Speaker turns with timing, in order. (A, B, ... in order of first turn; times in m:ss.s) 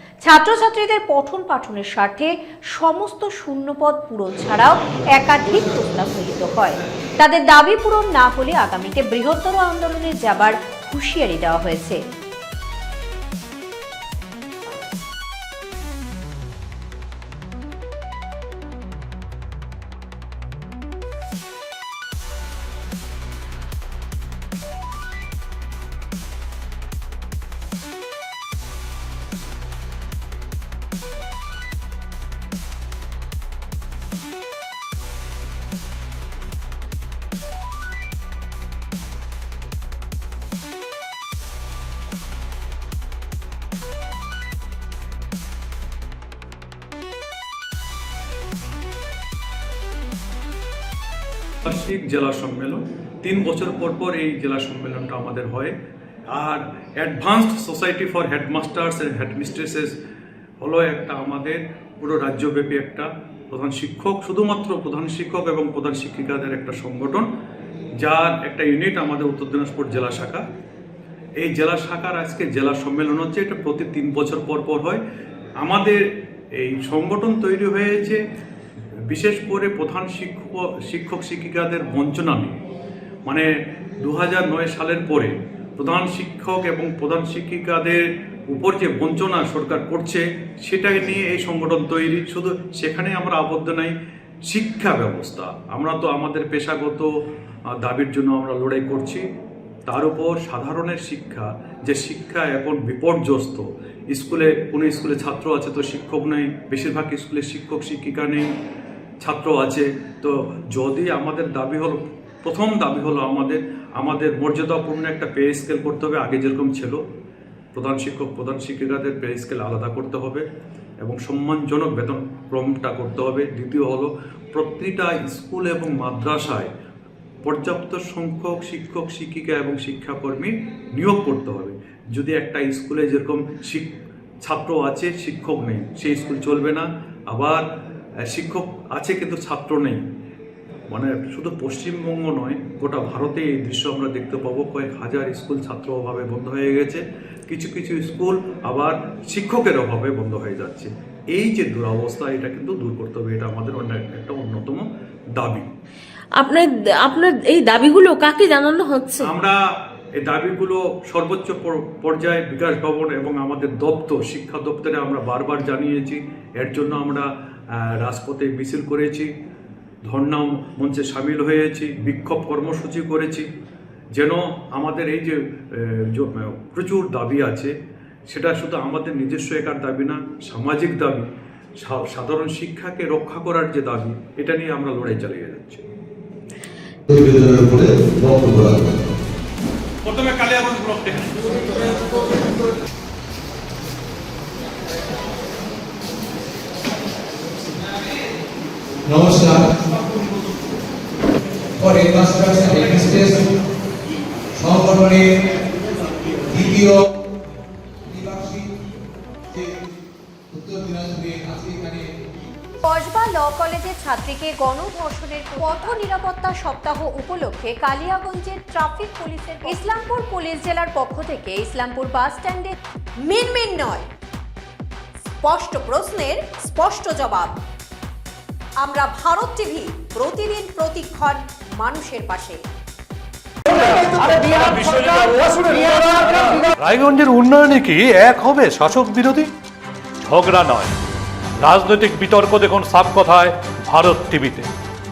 0:00.2-0:12.0 A
0:51.6-0:55.7 B
0:56.3-0:59.9 B
1:00.6-1:07.3 B
1:08.0-1:10.4 B
1:11.4-1:15.0 B
1:15.6-1:16.0 B
1:16.6-1:18.2 B
1:19.1-1:22.6 B
1:23.3-1:34.0 B
1:34.5-1:37.1 B
1:37.8-1:39.2 B
1:39.9-1:48.5 B
1:49.2-1:57.0 B
1:57.7-2:00.4 B
2:01.0-2:06.7 B
2:07.4-2:17.6 B
2:18.3-2:20.0 B
2:20.9-2:35.7 B
2:36.4-2:39.3 C
2:39.2-2:39.6 B
2:40.2-2:49.3 B
2:50.0-2:53.5 B
2:54.2-2:57.7 B
2:58.3-3:01.3 B
3:01.8-3:05.8 B
3:07.1-3:08.9 D
3:10.0-3:11.5 B
3:19.1-3:19.9 D
3:21.8-3:23.5 D
3:24.6-3:25.3 D
3:26.5-3:27.0 D
3:28.1-3:28.7 D
3:30.5-3:32.0 D
3:32.8-3:44.1 A
3:45.4-3:47.6 A
3:48.8-3:52.6 A
3:53.8-3:59.5 E
3:56.8-3:59.5 B
4:00.3-4:00.9 E
4:00.3-4:00.8 B
4:01.6-4:04.7 E
4:01.7-4:02.1 B